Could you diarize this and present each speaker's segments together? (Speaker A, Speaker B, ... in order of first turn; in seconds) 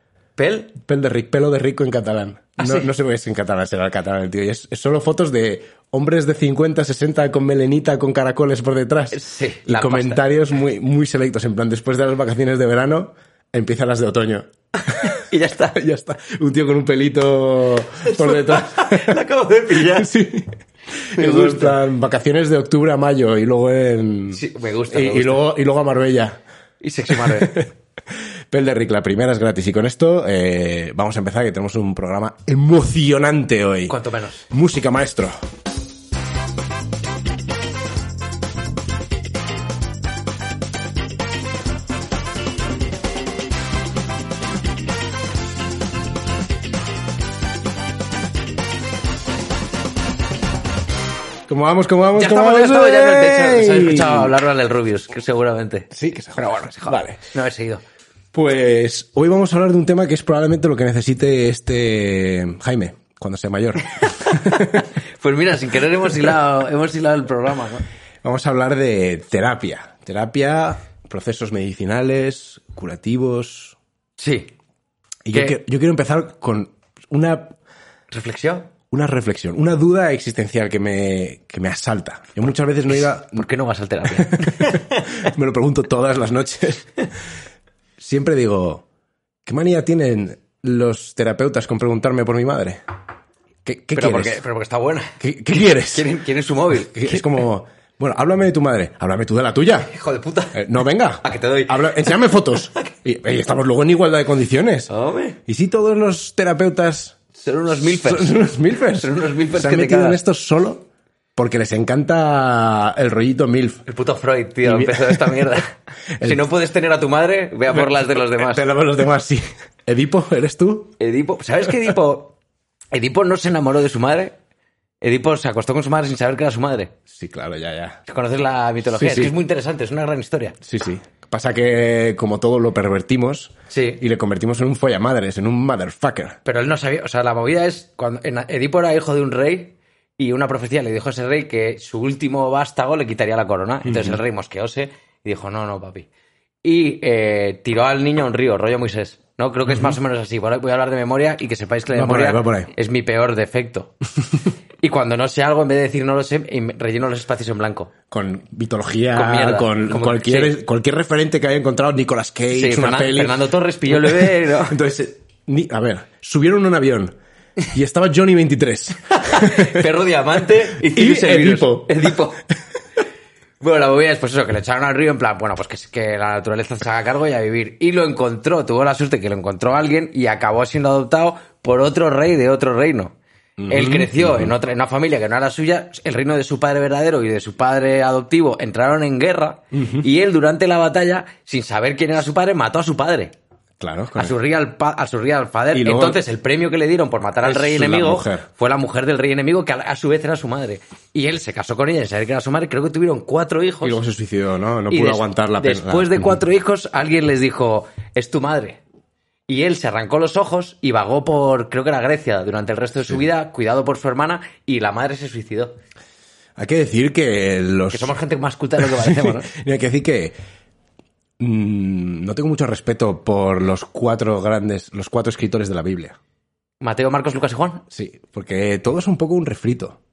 Speaker A: 0.4-0.8, 2.6-2.9, 9.1-10.2, 15.0-15.8, 18.1-20.1, 21.1-21.8, 24.3-25.4, 26.8-27.7, 33.9-34.5, 52.1-57.8, 64.0-67.8, 74.2-74.5, 78.1-78.7, 83.3-85.3, 93.9-97.4, 99.9-100.6, 101.2-102.9, 104.9-105.4, 107.3-110.2, 113.9-118.7, 121.0-122.3, 122.9-124.4, 125.0-126.9, 128.1-130.6, 133.7-134.0, 136.4-146.1, 146.6-153.9, 154.8-157.9, 159.1-160.6, 162.5-164.8, 169.2-172.4, 173.6-183.1, 183.7-193.3, 194.2-204.0, 204.9-208.8, 209.5-215.8, 217.9-219.5, 226.8-227.8
Speaker B: 0.8-15.2, 15.8-19.1, 19.8-26.4, 27.1-27.7, 28.5-34.0, 34.5-35.3, 51.5-54.3, 55.9-57.2, 58.3-64.9, 68.2-73.8, 75.2-77.6, 78.9-83.5, 84.1-86.9, 88.0-88.8, 89.5-92.8, 93.6-94.4, 95.2-96.1, 96.9-99.9, 100.5-104.9, 105.5-107.2, 107.7-113.8, 114.6-115.6, 116.2-116.4, 117.7-121.0, 127.1-128.0, 128.9-129.3, 130.6-136.4, 143.8-144.2, 149.7-150.0, 151.9-152.7, 158.1-163.4, 163.9-167.1, 167.7-169.8, 170.7-172.1, 183.6-184.5, 189.7-190.1, 193.8-194.3, 195.7-196.2, 197.4-198.4, 203.8-206.4, 216.6-218.1, 218.8-220.3, 221.4-226.2, 227.9-230.0